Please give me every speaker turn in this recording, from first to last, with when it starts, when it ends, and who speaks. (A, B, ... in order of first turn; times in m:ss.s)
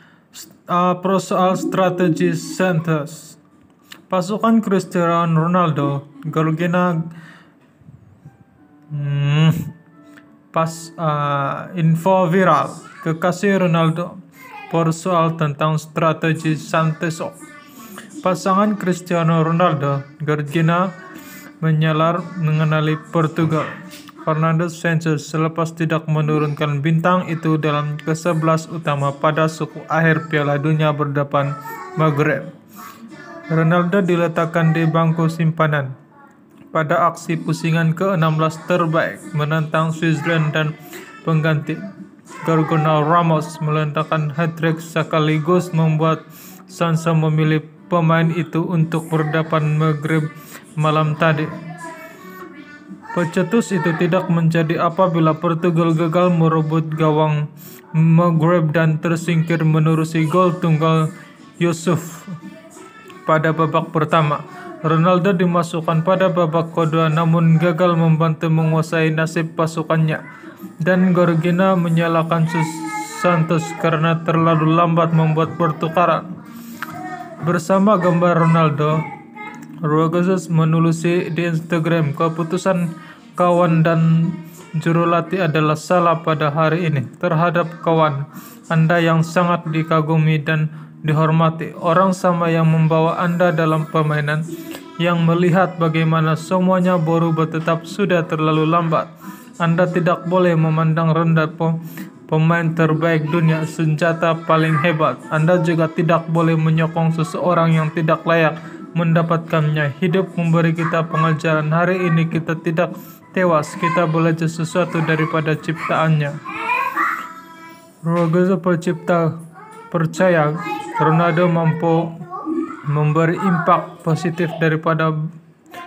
0:00.3-0:03.4 A
0:04.1-0:07.1 A
0:08.9-0:09.7 A
0:10.5-0:17.4 A
0:18.2-0:20.9 A
0:21.6-0:23.7 A
0:24.2-0:32.5 A
0:33.5-0:36.0 A
0:36.7-0:41.8 A
0:42.4-0:51.6 A
0:53.1-1:01.1 A
1:01.6-1:02.4 A
1:03.2-1:10.2 A
1:10.8-1:16.3 A
1:17.4-1:19.0 A
1:19.8-1:34.4 A
1:35.0-1:39.1 A
1:39.6-1:41.8 A
1:42.3-1:56.4 A
1:58.0-1:59.4 A
1:59.9-2:02.2 A
2:02.9-2:05.3 A